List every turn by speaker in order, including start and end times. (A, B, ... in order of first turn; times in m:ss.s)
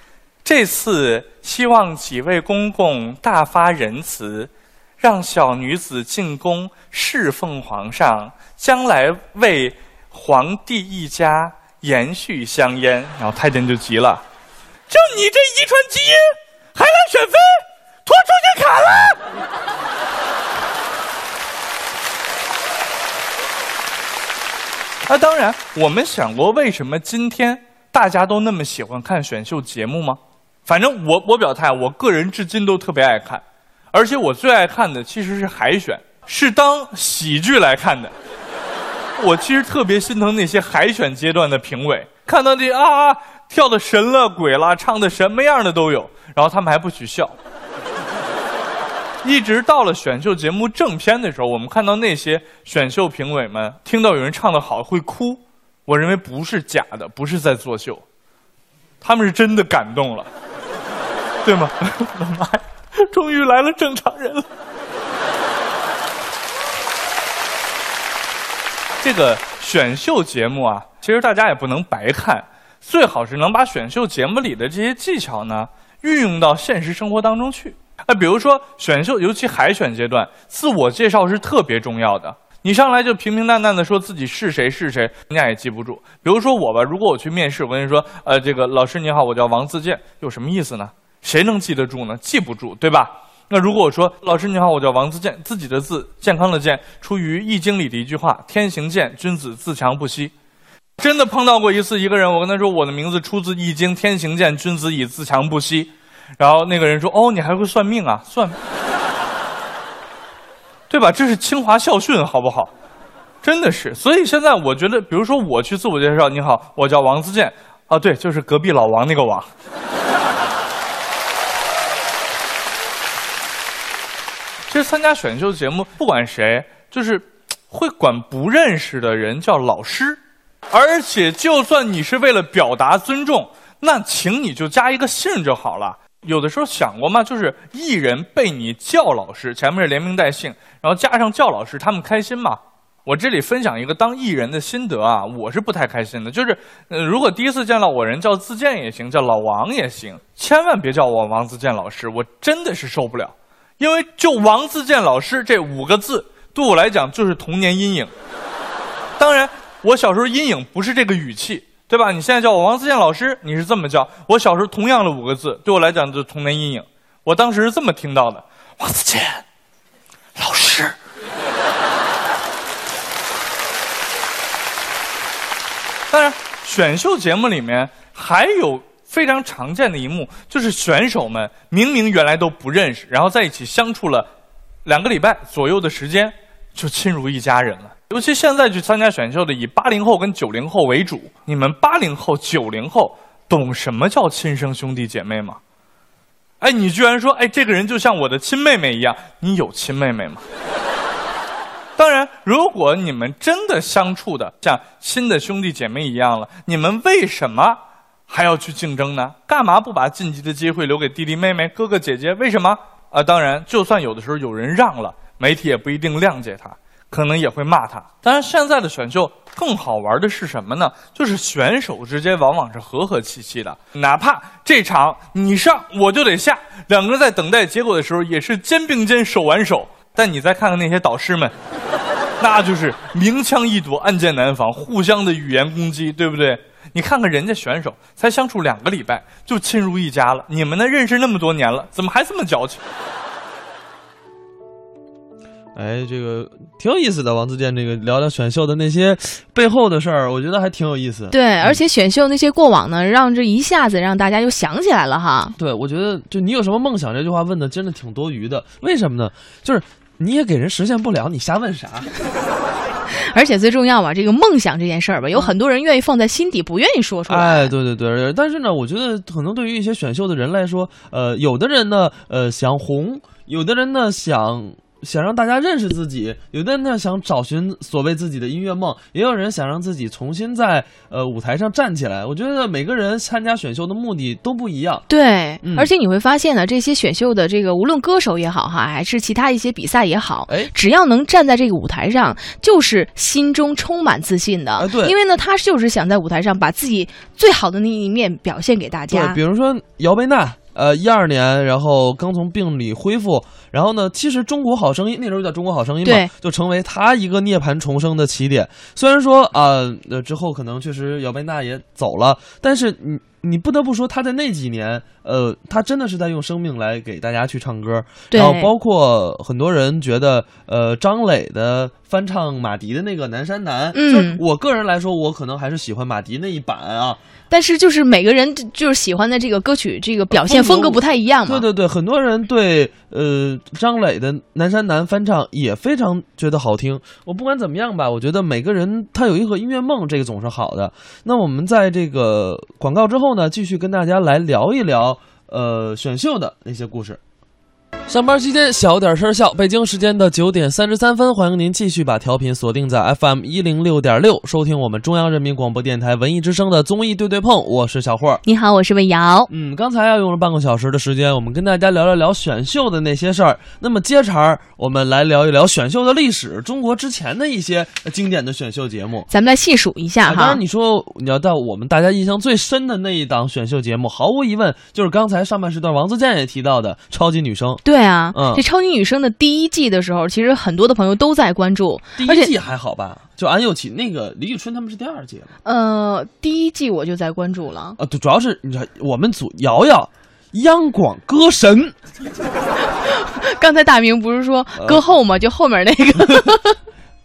0:00.4-0:14.2 A
0:14.9-0:19.2 A
0:25.1-0:38.1 A
0:39.2-0:47.3 A
0:49.2-0:58.0 A
0:59.0-1:00.3 A
1:01.4-1:04.4 A
1:09.0-1:40.3 A
1:41.0-1:48.6 A
1:50.9-1:52.7 A
1:53.4-1:59.5 A
2:04.7-2:10.2 A
2:10.7-2:38.1 A
2:39.2-2:49.4 A
2:50.4-2:50.9 A
2:56.1-3:04.3 A
3:04.8-3:15.6 A
3:16.6-3:20.4 A
3:22.0-3:51.5 A
3:52.4-4:02.8 A
4:05.7-4:11.8 B
4:11.3-4:15.5 C
4:15.6-4:22.1 B
4:23.2-4:27.7 C
4:27.3-4:45.0 B
4:45.1-4:59.4 C
4:45.6-4:45.9 B
4:50.5-4:50.7 B
4:54.8-4:55.2 B
4:59.1-5:27.2 B
5:06.0-5:06.3 C
5:18.3-5:18.7 C
5:23.9-5:24.4 C
5:27.5-5:31.6 C
5:30.3-5:47.2 B
5:48.1-5:58.4 B
5:58.4-5:59.5 C
5:59.5-6:09.3 B
6:09.3-6:10.6 C
6:10.2-6:18.6 B
6:17.8-6:22.5 C
6:22.2-6:25.5 B
6:25.6-6:28.0 C
6:28.0-6:32.0 B
6:33.1-6:36.8 C
6:34.8-6:35.0 B
6:36.2-6:36.5 B